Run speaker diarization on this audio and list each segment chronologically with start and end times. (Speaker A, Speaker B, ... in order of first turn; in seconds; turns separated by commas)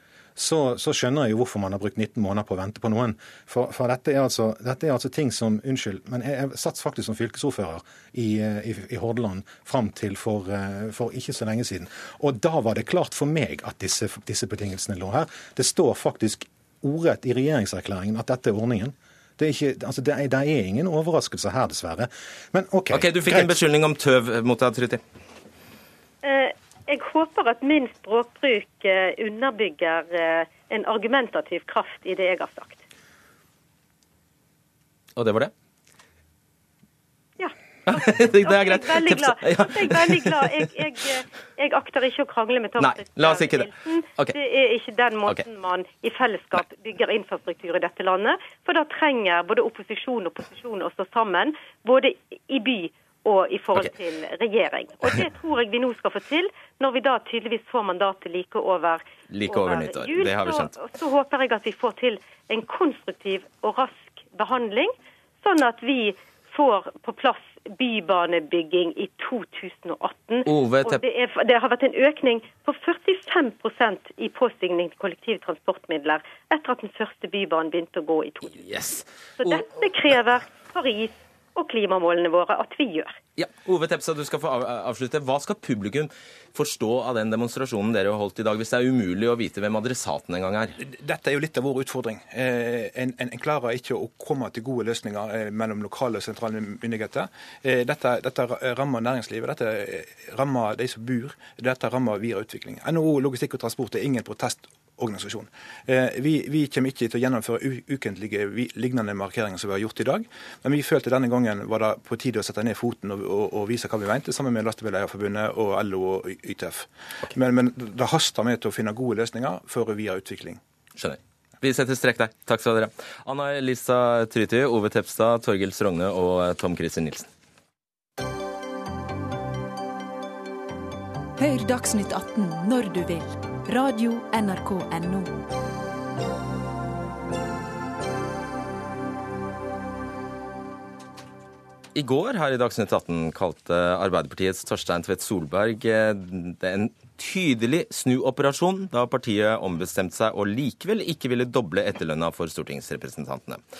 Speaker A: 0.3-23.6, Speaker B: 22.9-25.0, Speaker C: 26.2-32.8, Speaker B: 35.1-35.5, Speaker C: 37.4-78.6, Speaker B: 37.9-40.8, Speaker B: 42.8-44.4, Speaker B: 59.3-60.7, Speaker B: 70.4-71.0, Speaker B: 78.5-80.2, Speaker C: 79.4-83.2, Speaker B: 83.4-90.7, Speaker D: 90.8-120.6, Speaker B: 121.0-127.3, Speaker E: 131.4-135.4, Speaker B: 141.9-153.6